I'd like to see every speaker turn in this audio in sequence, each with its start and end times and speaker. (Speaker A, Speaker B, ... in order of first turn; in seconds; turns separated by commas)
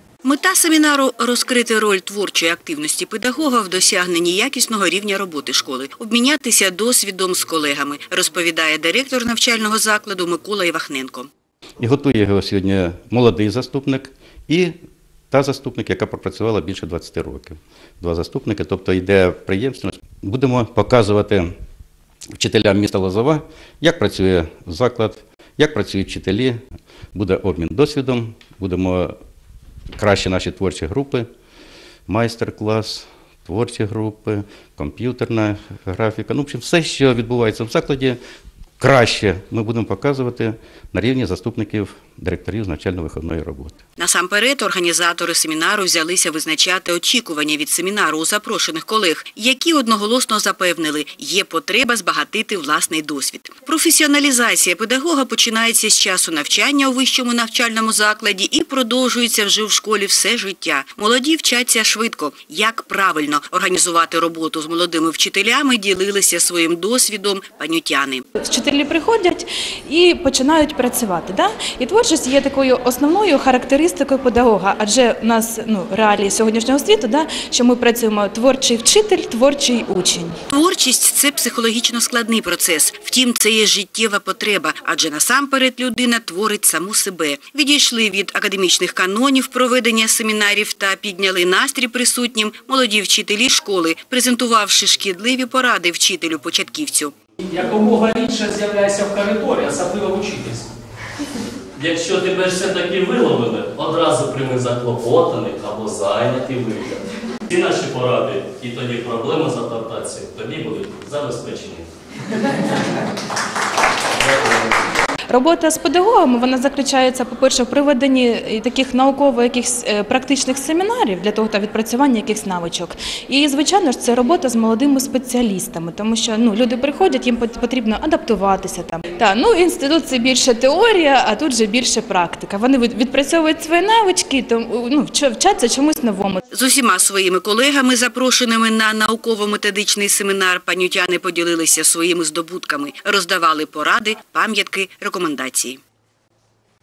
Speaker A: 0.2-11.3, Speaker B: 11.8-14.7, Speaker B: 15.3-21.5, Speaker B: 22.4-26.6, Speaker B: 27.1-29.1, Speaker B: 30.0-31.3, Speaker B: 32.1-38.2, Speaker B: 38.8-43.8, Speaker A: 44.0-68.2, Speaker C: 68.4-80.4, Speaker A: 80.5-97.1, Speaker D: 97.5-100.7, Speaker E: 101.8-111.9, Speaker E: 114.2-114.7, Speaker C: 115.3-136.4, Speaker A: 136.5-145.8